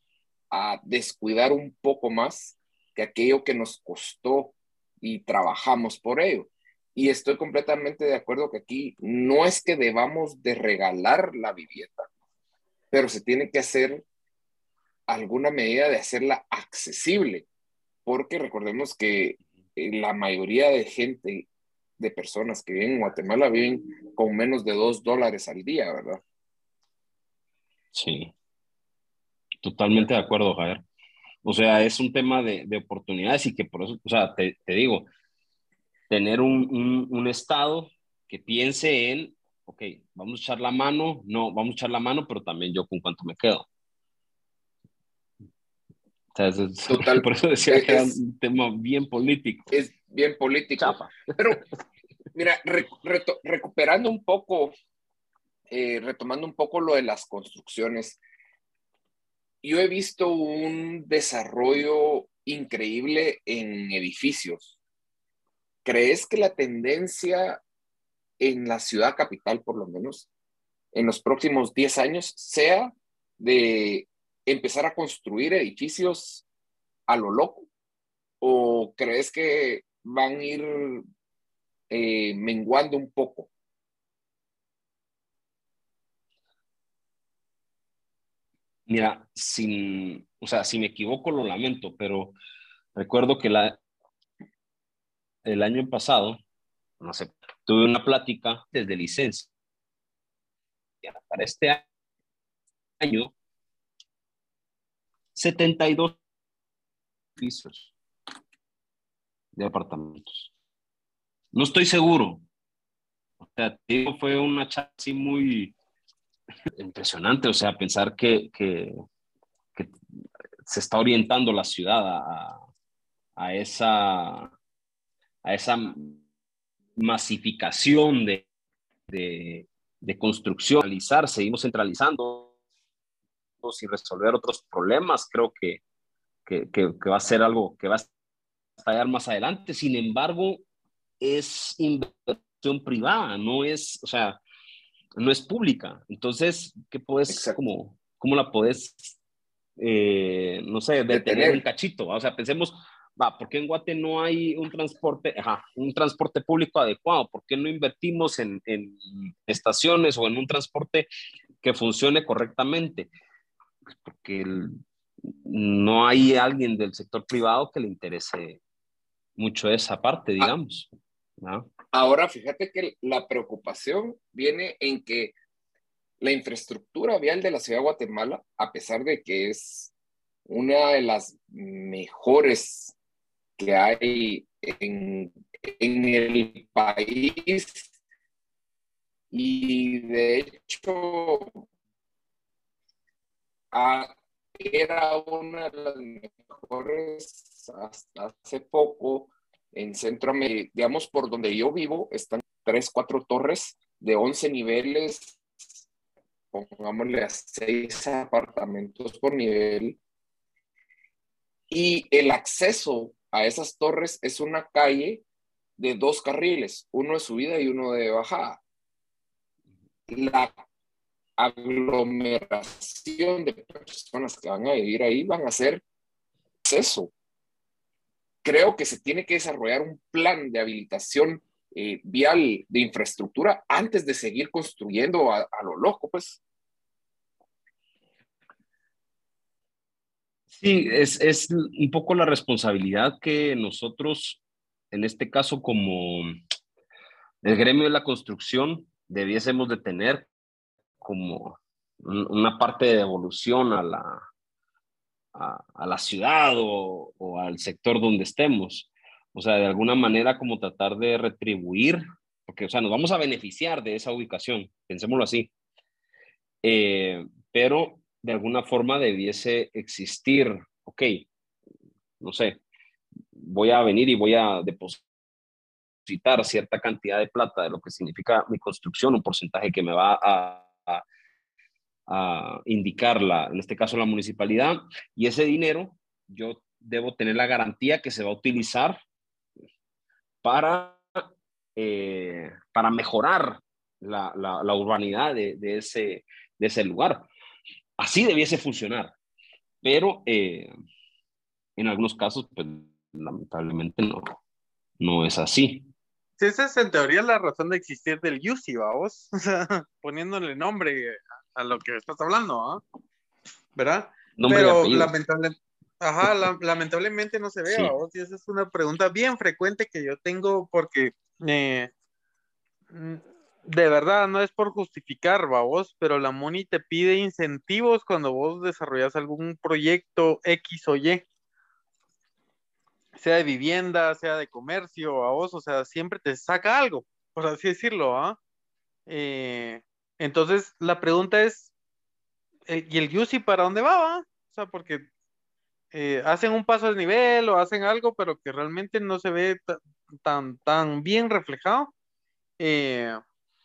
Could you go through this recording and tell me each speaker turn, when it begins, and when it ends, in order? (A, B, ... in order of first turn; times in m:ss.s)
0:00.5-0:12.1 A
0:12.9-0:14.0 A
0:15.1-0:17.5 A
0:18.1-0:21.5 A
0:22.0-0:26.2 A
0:27.9-0:28.3 B
0:29.6-0:30.8 B
0:31.4-0:35.1 B
0:36.1-0:43.7 B
0:46.4-0:49.8 B
0:46.9-0:48.2 A
0:49.7-0:51.6 A
0:50.8-0:51.6 B
0:52.3-0:54.7 A
0:55.7-0:58.2 A
0:59.6-1:04.8 A
1:05.8-1:07.6 A
1:08.4-1:10.3 A
1:10.9-1:16.4 A
1:17.1-1:17.7 A
1:18.4-1:21.0 A
1:21.9-1:23.5 A
1:28.9-1:32.4 B
1:33.0-1:33.8 B
1:35.4-1:36.4 B
1:37.0-1:39.5 B
1:41.0-1:41.9 B
1:43.0-1:43.3 B
1:45.4-1:46.2 B
1:47.4-1:47.9 B
1:49.6-1:50.5 B
1:51.5-1:52.4 B
1:53.4-1:55.8 B
1:56.8-1:58.9 B
2:00.7-2:02.6 B
2:03.4-2:04.5 B
2:05.4-2:06.2 B
2:07.0-2:08.5 B
2:09.1-2:12.5 B
2:13.6-2:15.8 B
2:16.5-2:18.1 B
2:18.8-2:20.6 B
2:21.2-2:24.4 B
2:25.2-2:29.2 B
2:27.3-2:27.6 A
2:29.8-2:41.1 B
2:31.1-2:31.6 A
2:41.6-2:43.1 B
2:44.0-2:44.8 B
2:45.4-2:48.6 B
2:49.4-2:51.7 B
2:51.9-2:55.3 A
2:56.2-2:59.9 A
3:00.5-3:03.0 A
3:03.6-3:07.9 A
3:09.3-3:11.6 A
3:13.7-3:25.4 A
3:26.5-3:30.0 A
3:31.7-3:35.2 A
3:35.8-3:38.6 A
3:40.1-3:40.5 A
3:41.4-3:45.8 A
3:46.7-3:47.1 A
3:48.4-3:56.4 A
4:00.5-4:04.4 B
4:04.9-4:06.4 B
4:07.4-4:10.3 B
4:11.0-4:14.2 B
4:15.4-4:25.5 B
4:26.6-4:31.3 B
4:32.2-4:32.6 B
4:33.4-4:35.0 B
4:36.1-4:41.0 B
4:42.1-4:49.0 B
4:50.4-4:57.3 B
4:58.0-4:59.1 B
4:59.8-5:00.7 B
5:01.8-5:04.4 B
5:05.0-5:05.9 B
5:06.4-5:12.8 C
5:13.8-5:21.9 C
5:14.4-5:15.1 B
5:17.7-5:17.9 B
5:22.9-5:31.2 C
5:33.2-5:38.4 C
5:39.1-5:41.7 C
5:42.7-5:45.1 C
5:45.9-5:51.9 C
5:52.6-5:53.2 C